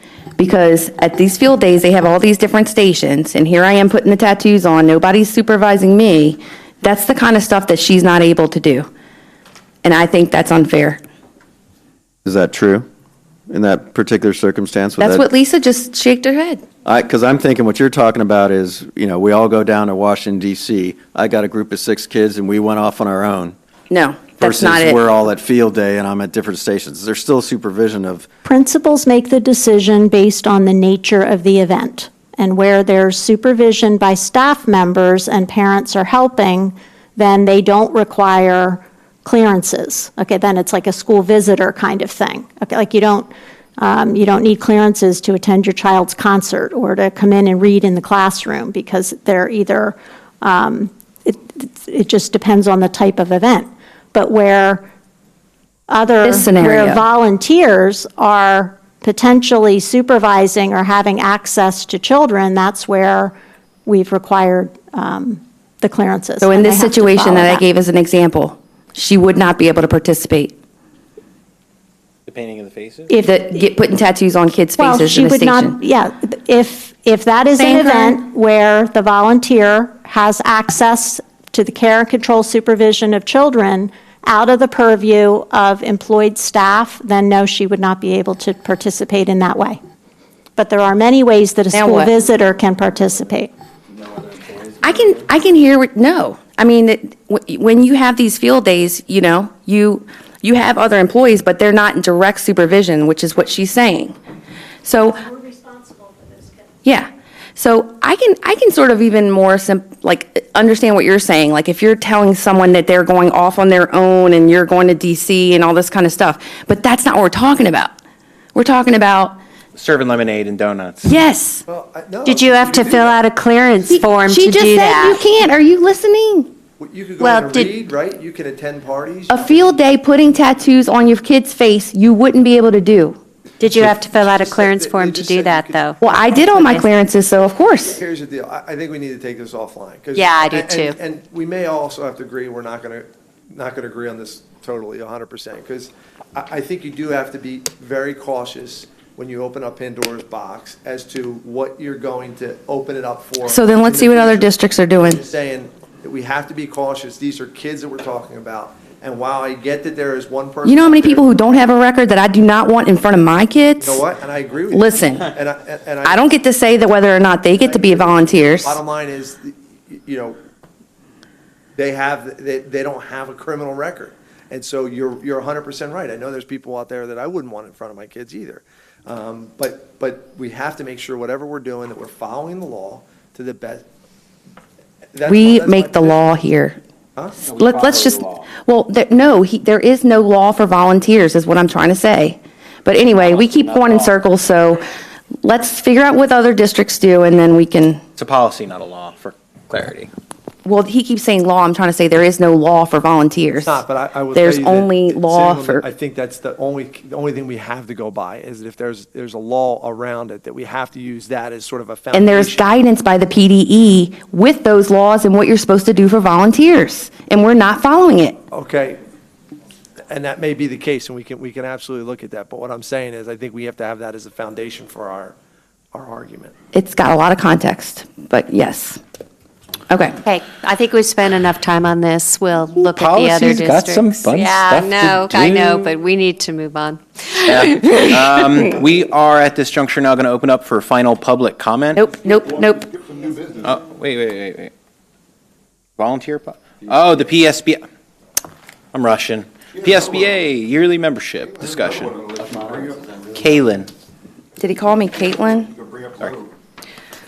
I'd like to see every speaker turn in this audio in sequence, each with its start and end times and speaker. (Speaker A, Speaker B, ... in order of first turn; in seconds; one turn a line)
Speaker A: 0.4-8.9
Speaker A: 9.8-11.0
Speaker B: 12.2-12.8
Speaker B: 13.5-15.2
Speaker A: 15.0-16.6
Speaker B: 16.8-23.5
Speaker A: 23.9-25.0
Speaker B: 24.4-28.3
Speaker C: 28.4-54.8
Speaker C: 55.9-67.6
Speaker A: 56.2-57.0
Speaker A: 66.4-70.5
Speaker D: 72.2-73.1
Speaker A: 73.2-75.8
Speaker C: 74.8-89.8
Speaker A: 77.5-78.2
Speaker C: 90.5-93.5
Speaker A: 91.7-92.1
Speaker A: 94.8-104.2
Speaker A: 104.8-105.2
Speaker C: 105.3-106.5
Speaker A: 106.8-117.9
Speaker A: 118.5-119.4
Speaker D: 119.7-121.1
Speaker A: 121.0-121.6
Speaker E: 121.7-123.2
Speaker F: 122.2-125.2
Speaker A: 123.8-126.5
Speaker E: 126.8-129.6
Speaker F: 127.2-127.8
Speaker A: 129.3-133.2
Speaker F: 133.6-136.0
Speaker E: 133.7-135.8
Speaker A: 136.0-138.0
Speaker E: 137.8-161.2
Speaker F: 140.1-140.9
Speaker A: 153.4-155.2
Speaker A: 160.6-164.0
Speaker E: 163.8-166.2
Speaker A: 164.7-165.3
Speaker A: 166.0-168.8
Speaker E: 167.5-170.4
Speaker E: 171.7-183.8
Speaker E: 185.1-186.2
Speaker A: 185.2-186.8
Speaker D: 187.4-188.5
Speaker A: 187.5-194.8
Speaker D: 193.1-194.1
Speaker A: 195.4-198.0
Speaker D: 198.2-200.1
Speaker A: 200.6-205.8
Speaker E: 203.6-212.6
Speaker A: 212.1-218.4
Speaker E: 218.5-219.0
Speaker E: 220.1-225.3
Speaker E: 225.9-226.5
Speaker A: 226.7-229.0
Speaker A: 229.9-230.2
Speaker F: 230.2-238.6
Speaker D: 232.7-235.9
Speaker D: 237.4-242.1
Speaker A: 241.9-243.4
Speaker D: 243.6-244.7
Speaker D: 246.0-247.8
Speaker D: 248.9-253.9
Speaker A: 254.6-255.7